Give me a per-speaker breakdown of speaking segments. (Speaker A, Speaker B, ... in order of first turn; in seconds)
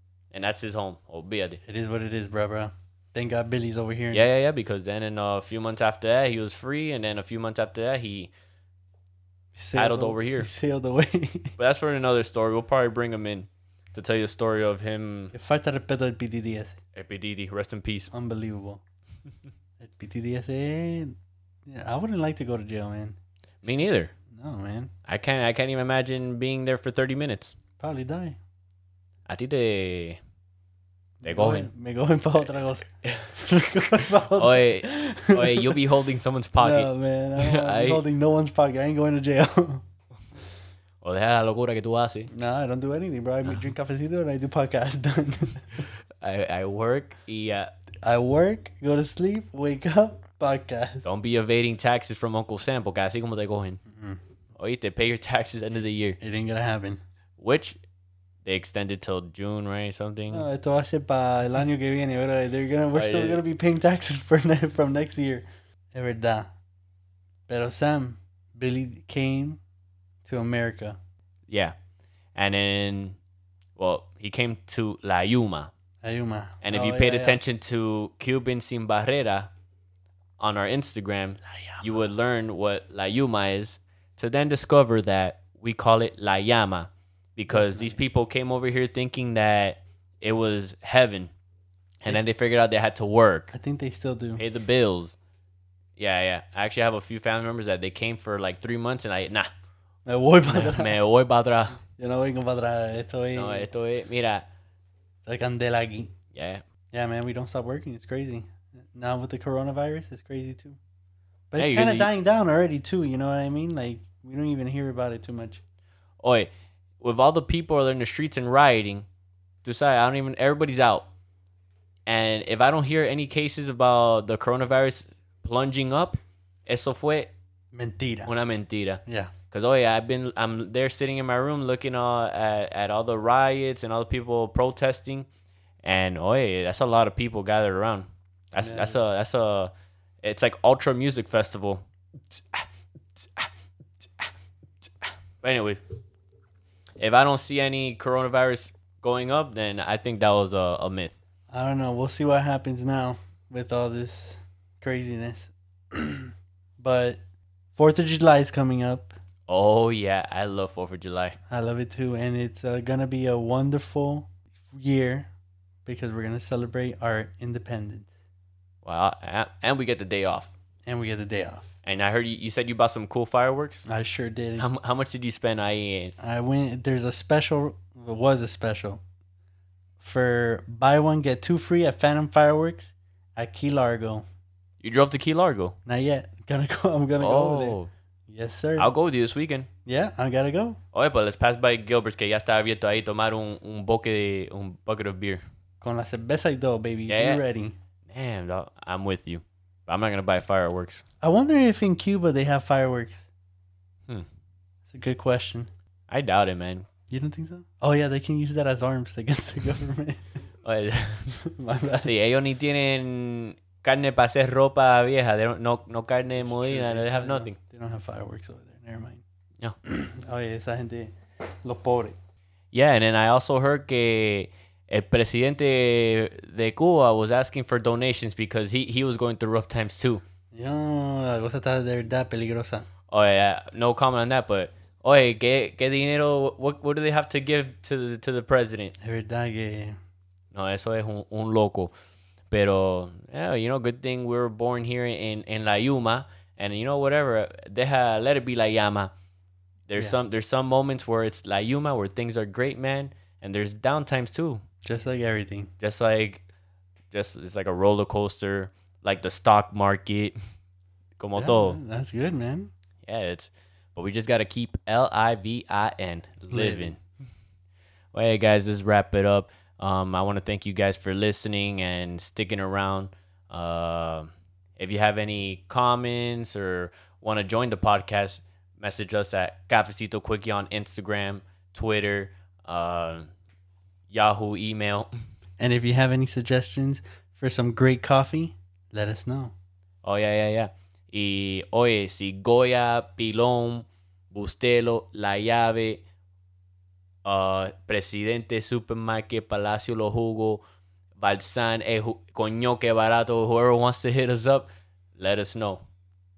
Speaker A: 0.3-1.6, 4.1-8.3, 9.8-10.5, 11.6-15.3, 16.9-18.1, 23.6-24.1, 25.1-27.6, 29.3-30.2, 31.2-31.7, 33.0-33.3, 34.3-38.0, 41.0-42.3, 46.2-47.7, 51.0-53.8, 54.6-56.2, 57.4-57.8, 58.5-60.5, 62.9-63.4, 71.5-71.7, 72.4-73.2, 73.8-75.7, 76.6-79.5, 80.4-91.3, 92.0-93.5, 94.4-95.2, 96.0-99.5, 100.5-101.8, 103.3-104.5, 106.3-106.6, 111.6-112.1, 116.2-119.1, 119.6-121.1, 122.1-127.3, 128.3-135.3, 135.8-139.7, 140.2-144.3, 144.9-145.8, 147.0-151.2, 159.5-161.4, 168.8-170.5, 171.8-173.8, 174.6-176.1, 184.8-185.8, 187.2-187.9, 188.8-189.7, 190.9-195.4, 197.1-197.4, 198.1-201.0, 206.1-206.9, 210.7-211.4, 212.0-217.6, 222.7-230.2, 233.1-238.9, 240.5-241.9, 242.5-249.1, 249.9-254.6, 255.8-256.4, 257.1-260.4, 261.2-261.8, 263.1-267.0, 268.1-283.3, 284.1-285.1, 290.0-296.0, 297.2-300.6, 301.2-305.9
Speaker B: 1.7-4.3, 9.6-11.5, 15.3-16.8, 18.1-18.8, 19.8-21.1, 21.7-23.2, 24.3-24.9, 27.8-28.4, 31.2-35.8, 36.6-39.8, 42.3-45.8, 48.0-51.0, 53.9-54.2, 56.2-57.0, 60.3-66.5, 67.5-69.6, 70.2-71.0, 76.0-77.4, 81.7-82.0, 87.5-88.0, 93.5-94.4, 100.1-101.0, 102.0-103.7, 105.3-106.1, 106.9-110.8, 111.5-115.6, 127.7-128.3, 129.1-129.3, 138.6-139.0, 151.5-157.2, 157.8-159.1, 161.5-165.3, 165.9-168.1, 170.9-171.7, 173.9-174.7, 176.2-179.0, 180.0-184.2, 185.9-188.9, 189.9-190.8, 195.8-197.8, 201.2-203.3, 204.9-205.7, 207.1-210.3, 211.4-212.1, 216.4-219.2, 219.8-221.1, 221.6-222.2, 230.5-232.9, 239.0-240.0, 254.8-255.7, 261.4-262.7, 266.5-266.9, 285.6-289.5